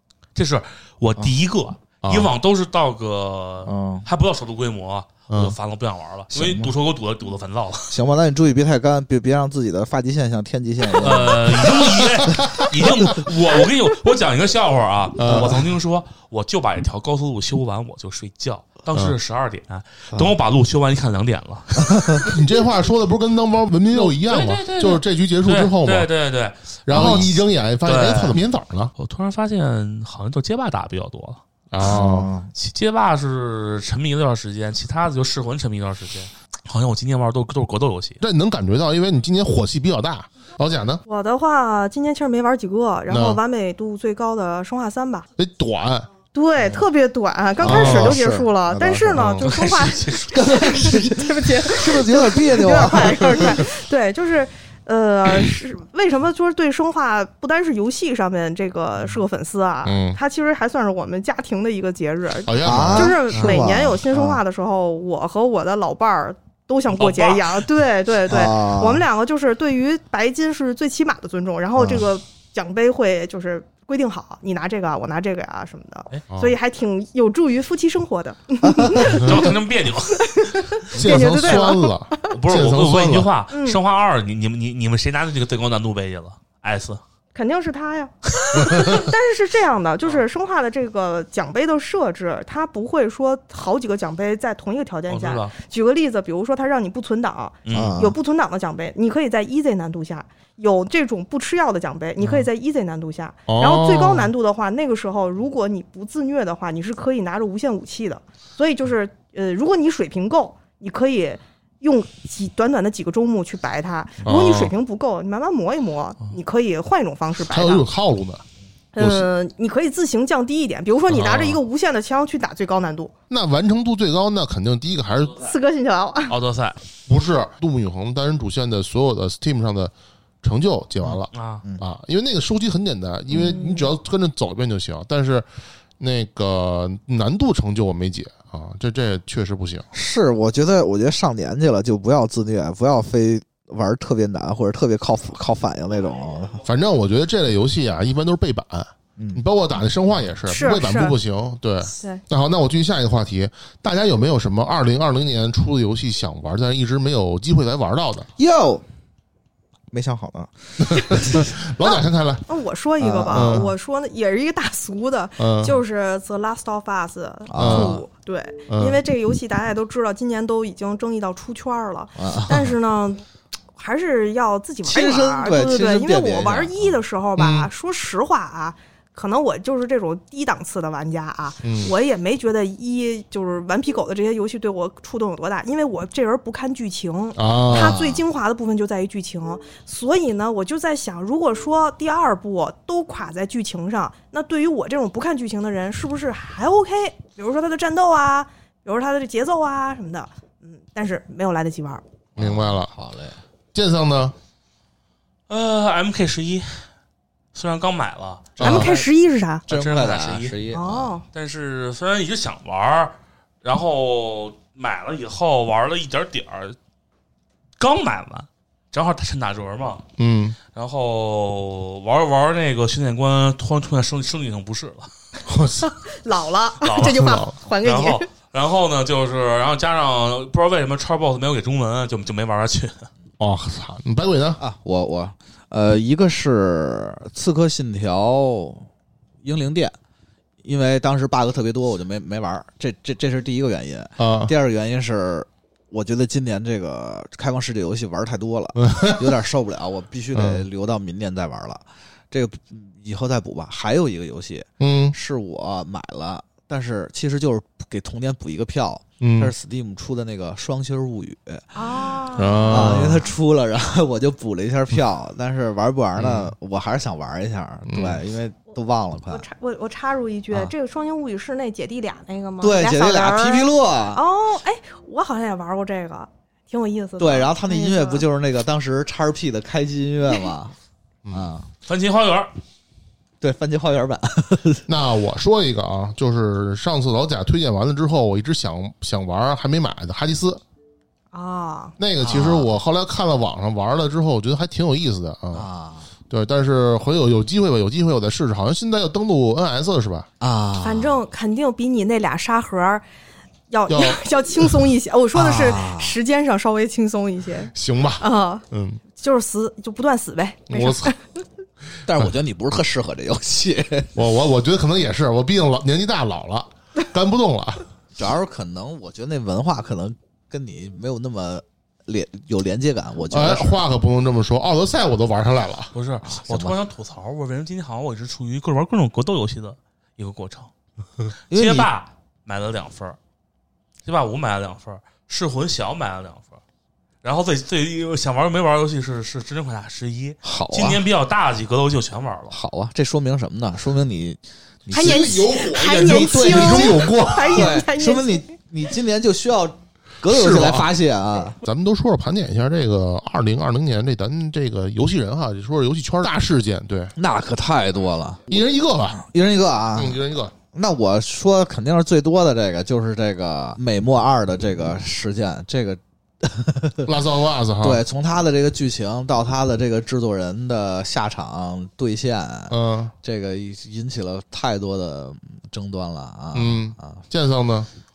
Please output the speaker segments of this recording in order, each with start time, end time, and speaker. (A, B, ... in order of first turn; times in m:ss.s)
0:00.4-0:08.0 A
0:02.0-0:02.3 B
0:03.6-0:04.1 C
0:05.3-0:05.6 B
0:06.3-0:06.7 C
0:07.9-0:11.8 C
0:11.0-0:22.4 A
0:12.0-0:12.7 B
0:15.2-0:15.7 B
0:15.3-0:15.6 C
0:21.9-0:22.2 C
0:22.2-0:26.1 B
0:23.9-0:28.4 A
0:26.9-0:28.9 B
0:26.9-0:27.3 C
0:29.0-0:32.0 A
0:31.7-0:32.3 B
0:31.8-0:32.5 C
0:32.6-0:38.2 A
0:38.2-0:41.0 B
0:41.1-0:45.3 D
0:43.1-0:43.4 B
0:45.4-0:46.1 B
0:46.3-1:19.4 D
0:47.6-0:49.5 C
0:47.6-0:48.2 B
0:49.1-0:49.5 B
0:49.5-0:50.4 A
0:50.3-0:53.6 C
0:59.8-1:00.2 B
1:02.4-1:03.2 B
1:02.6-1:04.4 C
1:07.0-1:07.6 A
1:08.3-1:09.0 C
1:11.8-1:12.0 C
1:16.3-1:16.6 B
1:18.6-1:19.2 C
1:19.0-1:20.5 A
1:20.1-1:22.3 D
1:20.9-1:23.3 B
1:22.3-1:27.0 A
1:23.5-1:23.8 D
1:27.3-1:57.8 D
1:28.6-1:29.1 B
1:35.1-1:35.6 A
1:37.6-1:38.0 A
1:37.7-1:38.2 C
1:43.5-1:44.3 B
1:54.2-1:54.7 B
1:57.5-1:58.4 B
1:58.9-2:03.1 D
1:59.0-1:59.3 B
2:01.1-2:01.6 B
2:03.3-2:05.5 B
2:05.4-2:06.3 D
2:06.3-2:06.8 A
2:07.1-2:15.5 B
2:11.0-2:11.8 C
2:11.3-2:11.6 A
2:13.3-2:13.9 D
2:16.0-2:19.9 B
2:19.9-2:26.6 C
2:26.6-2:38.3 B
2:29.2-2:29.4 C
2:30.5-2:31.2 D
2:31.8-2:32.2 D
2:38.4-2:38.8 C
2:39.9-2:41.5 C
2:40.8-2:42.4 B
2:42.5-2:53.2 D
2:43.0-2:43.6 C
2:43.3-2:43.7 B
2:45.4-2:45.8 B
2:47.5-2:48.0 C
2:47.6-2:48.0 B
2:48.7-2:49.0 B
2:52.2-2:52.7 C
2:53.8-3:22.0 D
2:54.8-2:56.9 C
2:57.4-2:57.7 B
3:01.6-3:01.9 B
3:07.4-3:08.0 B
3:07.7-3:08.2 C
3:22.4-3:22.9 B
3:22.4-3:23.4 C
3:23.7-3:24.4 B
3:25.5-3:26.9 A
3:27.5-3:28.6 A
3:28.6-3:28.9 B
3:28.6-3:29.1 C
3:28.6-3:29.7 D
3:29.7-3:31.1 C
3:29.7-3:30.7 A
3:30.7-3:31.2 D
3:31.3-3:36.8 A
3:37.8-3:40.0 A
3:40.2-3:40.6 B
3:40.7-3:45.1 A
3:45.5-3:45.9 B
3:45.9-3:48.3 D
3:46.8-3:53.1 A
3:47.0-3:47.5 B
3:53.4-3:54.6 B
3:54.6-3:58.9 C
3:59.4-4:00.0 C
4:00.6-4:21.6 C
4:04.2-4:04.5 B
4:08.8-4:09.3 B
4:10.3-4:10.6 B
4:14.8-4:15.2 B
4:19.2-4:19.5 B
4:21.7-4:23.0 D
4:22.4-4:23.3 B
4:22.7-4:29.5 C
4:26.2-4:26.5 B
4:27.9-4:28.2 B
4:29.3-4:38.3 D
4:32.6-4:34.2 C
4:37.2-4:40.7 C
4:41.2-4:41.5 B
4:41.3-4:41.7 C
4:41.9-4:42.5 A
4:43.4-4:44.9 C
4:44.9-4:50.6 B
4:51.3-4:51.9 D
4:52.0-4:55.7 B
4:52.2-4:52.8 C
4:55.5-4:56.1 C
4:56.3-5:00.3 B
5:00.4-5:01.2 C
5:00.8-5:03.0 D
5:03.7-5:11.4 D
5:03.9-5:04.7 B
5:05.3-5:06.2 C
5:07.7-5:09.0 B
5:10.7-5:11.1 B
5:12.1-5:14.2 C
5:14.2-5:17.9 B
5:18.2-5:23.8 C
5:23.3-5:25.9 B
5:25.9-5:30.7 A
5:26.2-5:26.8 C
5:31.5-5:33.2 A
5:31.5-5:31.9 C
5:34.0-5:36.6 A
5:37.2-5:42.6 A
5:40.4-5:41.0 C
5:42.5-5:45.4 C
5:44.9-5:48.5 D
5:44.9-5:47.8 B
5:46.0-5:51.6 C
5:50.3-5:50.9 B
5:51.6-5:57.1 B
5:57.2-6:00.2 C
5:58.5-5:59.2 B
6:00.0-6:00.5 B
6:00.7-6:07.1 C
6:07.0-6:08.0 B
6:07.8-6:17.2 C
6:12.7-6:13.1 B
6:16.5-6:17.9 B